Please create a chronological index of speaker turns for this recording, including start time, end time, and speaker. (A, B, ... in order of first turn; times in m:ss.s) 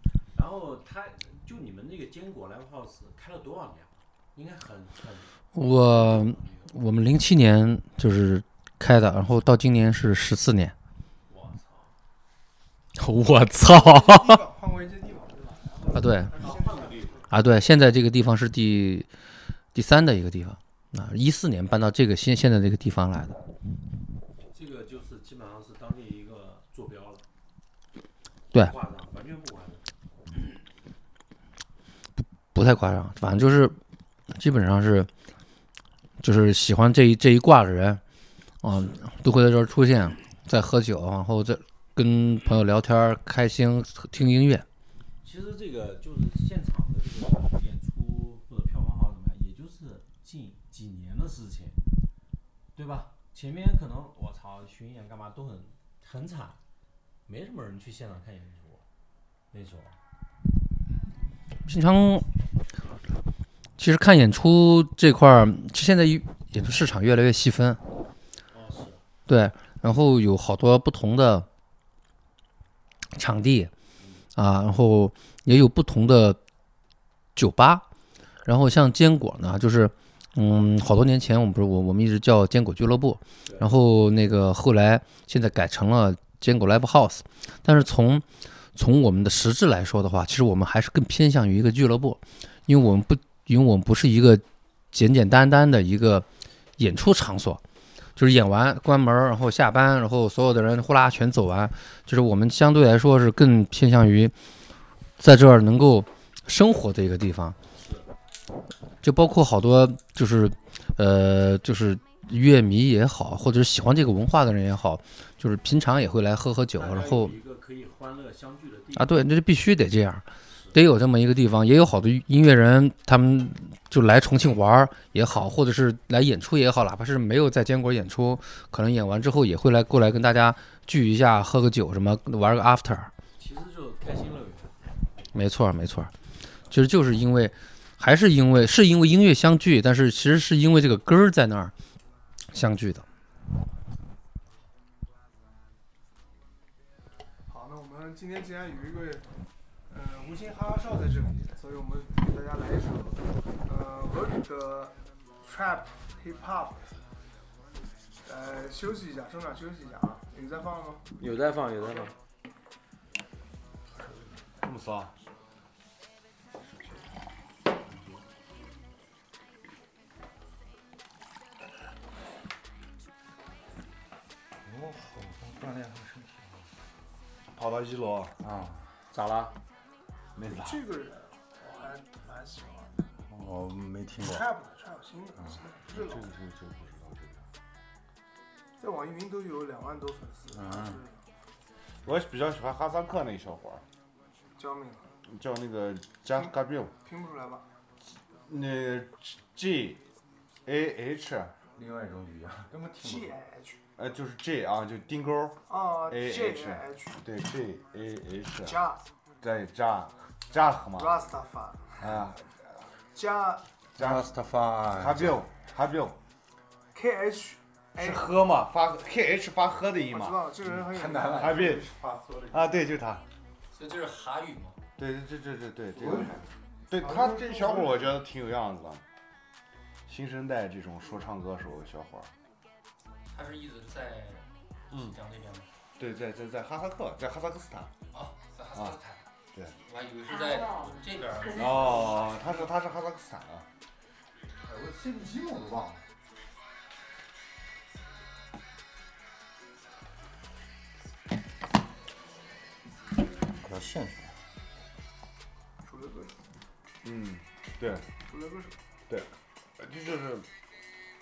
0:00.4-0:06.8 A
0:05.6-0:10.7 B
0:11.3-0:11.9 A
0:13.0-0:14.4 B
0:13.6-0:17.3 C
0:15.9-0:16.4 B
0:16.4-0:17.3 A
0:17.3-0:19.1 B
0:19.7-0:23.4 B
0:24.5-0:27.2 A
0:28.5-0:29.8 A
0:32.5-0:33.8 B
0:34.3-0:35.1 B
0:36.2-0:38.0 B
0:38.6-0:44.7 B
0:45.2-0:51.8 A
0:52.8-0:56.6 A
0:57.3-0:58.8 A
0:59.5-1:00.0 A
1:01.7-1:02.2 B
1:03.8-1:07.8 B
1:08.5-1:09.0 A
1:09.3-1:11.5 B
1:13.2-1:13.7 B
1:14.4-1:16.4 B
1:17.4-1:17.8 B
1:18.5-1:28.2 B
1:23.4-1:23.7 A
1:28.8-1:36.2 B
1:36.8-1:37.6 B
1:38.2-1:44.3 B
1:45.2-1:47.6 B
1:47.8-1:48.1 A
1:49.0-1:57.3 B
1:56.8-1:59.3 A
1:59.0-2:13.1 B
2:00.5-2:00.8 A
2:13.4-2:14.8 A
2:15.3-2:16.1 B
2:16.7-2:21.7 B
2:22.5-2:23.0 B
2:27.5-2:29.3 C
2:29.9-2:36.9 C
2:38.2-2:41.0 C
2:41.2-2:42.1 A
2:44.6-2:45.1 D
2:54.6-2:56.6 E
2:57.6-2:58.4 D
2:58.4-2:58.8 E
2:59.1-2:59.6 A
3:00.4-3:00.8 D
3:00.5-3:03.0 C
3:03.3-3:04.5 E
3:04.2-3:06.3 C
3:05.9-3:07.4 D
3:08.8-3:11.2 C
3:10.5-3:11.0 E
3:12.0-3:13.8 D
3:14.6-3:15.1 C
3:15.3-3:16.9 D
3:16.3-3:17.6 C
3:18.5-3:20.0 D
3:20.6-3:21.5 D
3:21.8-3:23.4 E
3:23.0-3:23.8 C
3:24.0-3:28.8 D
3:25.7-3:27.2 C
3:28.6-3:29.0 C
3:29.4-3:31.2 D
3:30.9-3:32.2 C
3:32.0-3:32.4 D
3:33.1-3:33.6 C
3:34.0-3:34.3 D
3:34.0-3:35.4 E
3:34.9-3:36.2 D
3:36.9-3:38.3 C
3:38.0-3:40.5 D
3:40.0-3:41.8 C
3:40.7-3:42.8 E
3:41.3-3:41.9 D
3:42.5-3:43.2 D
3:43.7-3:44.8 F
3:45.0-3:49.0 D
3:46.0-3:46.4 E
3:47.0-3:48.1 C
3:50.1-3:52.3 D
3:53.3-3:55.7 F
3:56.0-3:57.9 D
3:58.1-3:59.2 F
3:58.7-3:59.0 D
3:59.8-4:02.4 F
4:01.5-4:03.7 D
4:04.6-4:06.0 E
4:13.6-4:14.3 E
4:15.8-4:16.3 C
4:17.0-4:18.0 D
4:18.3-4:18.8 C
4:19.1-4:20.5 D